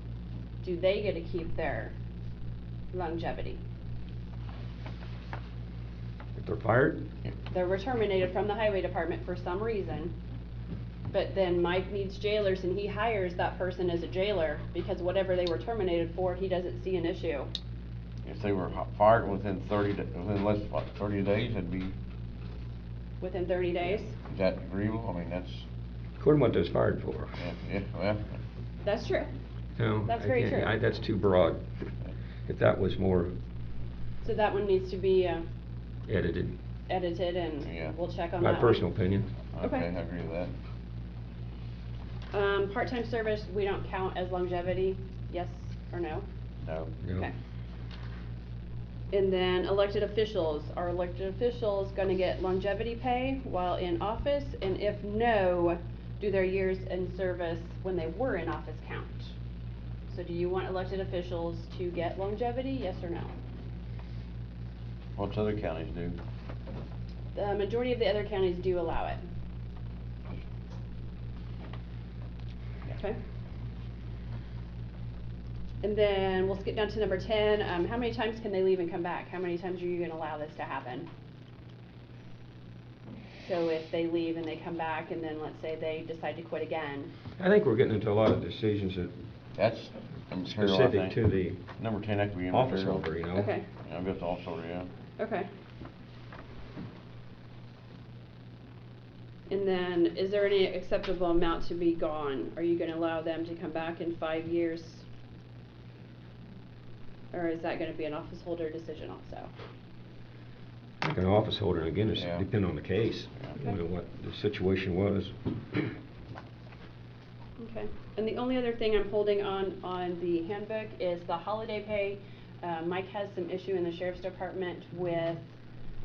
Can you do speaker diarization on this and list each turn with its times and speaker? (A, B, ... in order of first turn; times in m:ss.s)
0:00.6-0:01.9 A
0:02.9-0:03.6 A
0:06.4-0:07.0 B
0:07.5-0:10.1 A
0:11.1-0:17.5 A
0:18.2-0:21.9 C
0:23.2-0:24.1 A
0:23.8-0:25.6 C
0:26.2-0:27.4 B
0:27.4-0:28.4 C
0:28.8-0:29.3 A
0:29.8-0:31.6 B
0:30.1-0:30.7 A
0:32.5-0:33.3 B
0:34.2-0:35.4 A
0:36.1-0:36.5 B
0:36.9-0:38.8 A
0:37.6-0:38.0 C
0:38.4-0:39.3 B
0:39.5-0:40.5 C
0:39.6-0:39.9 A
0:42.3-0:46.2 A
0:46.6-0:46.9 C
0:47.0-0:47.3 B
0:49.1-0:59.3 A
1:00.1-1:03.3 A
1:05.2-1:06.2 C
1:07.3-1:09.2 A
1:15.8-1:21.1 A
1:23.4-1:27.1 A
1:27.4-1:29.1 B
1:29.6-1:31.2 C
1:30.4-1:31.6 B
1:31.7-1:33.0 C
1:32.5-1:33.5 B
1:33.4-1:33.6 A
1:33.8-1:34.9 C
1:35.2-1:35.5 A
1:39.5-1:45.0 A
1:47.3-1:49.5 A
1:51.0-1:55.9 B
1:52.1-1:52.4 C
1:57.6-2:05.5 A